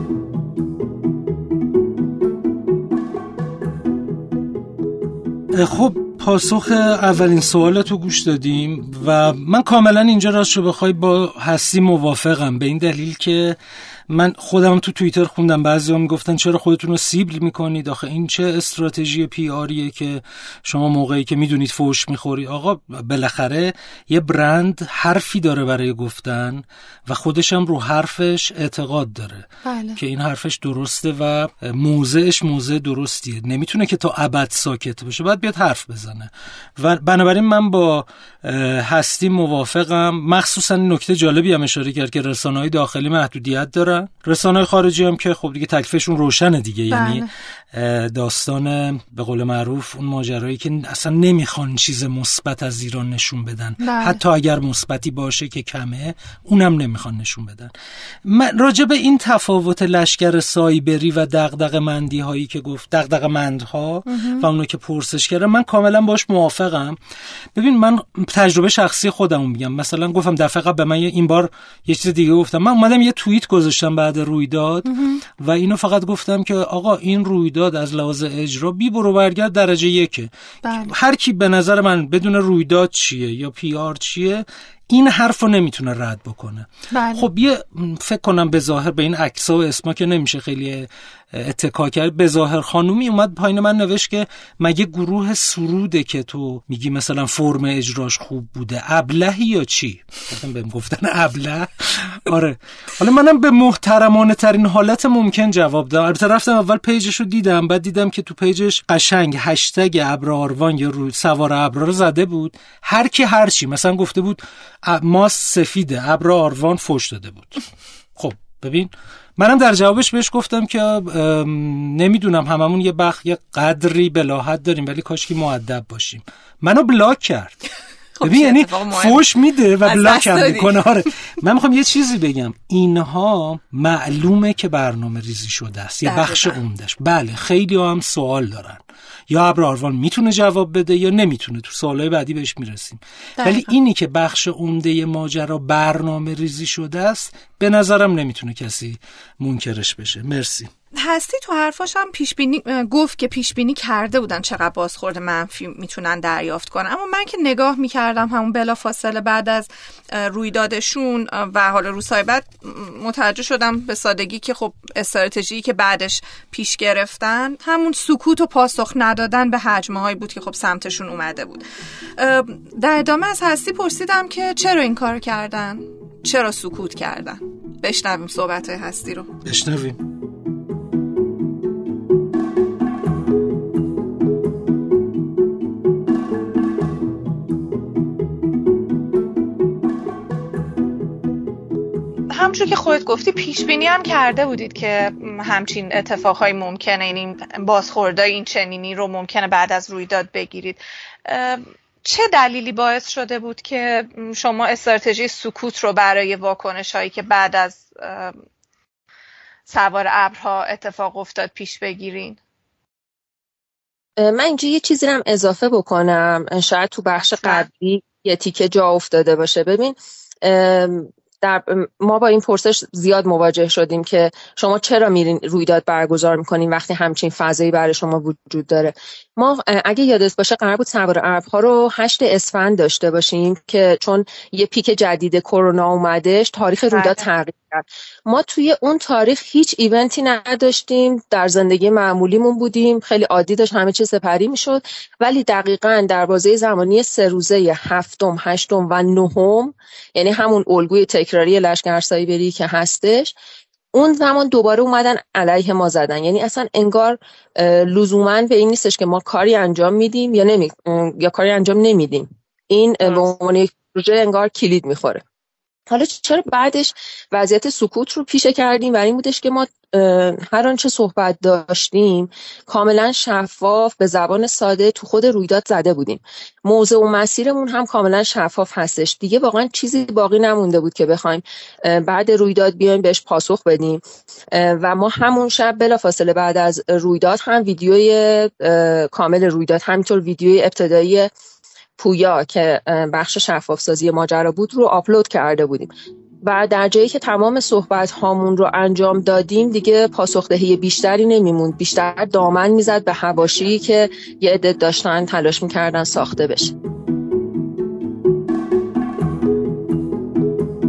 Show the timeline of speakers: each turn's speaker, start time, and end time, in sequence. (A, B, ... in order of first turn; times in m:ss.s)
0:05.5-0:13.6 A
0:14.1-0:57.7 A
0:29.6-0:30.0 B
0:46.9-0:47.3 B
0:53.8-0:54.2 B
0:58.2-1:07.0 A
1:04.1-1:04.5 B
1:07.5-1:20.3 A
1:14.8-1:15.2 B
1:20.6-1:20.9 B
1:20.8-1:57.6 A
1:26.9-1:27.2 B
1:58.2-2:07.6 A
2:08.2-2:09.2 B
2:08.2-2:30.7 A
2:09.8-2:10.8 B
2:16.0-2:16.6 B
2:23.4-2:23.7 B
2:31.0-2:51.6 B
2:52.2-2:59.3 B
2:59.4-3:00.0 A
3:12.3-3:28.4 B
3:29.7-3:32.4 B
3:34.2-4:13.3 C
3:37.4-3:37.6 B
3:56.9-3:57.2 B
4:13.9-4:25.2 C
4:25.9-4:44.0 C
4:44.5-4:51.3 C
4:52.0-4:55.9 C
4:56.4-5:06.7 C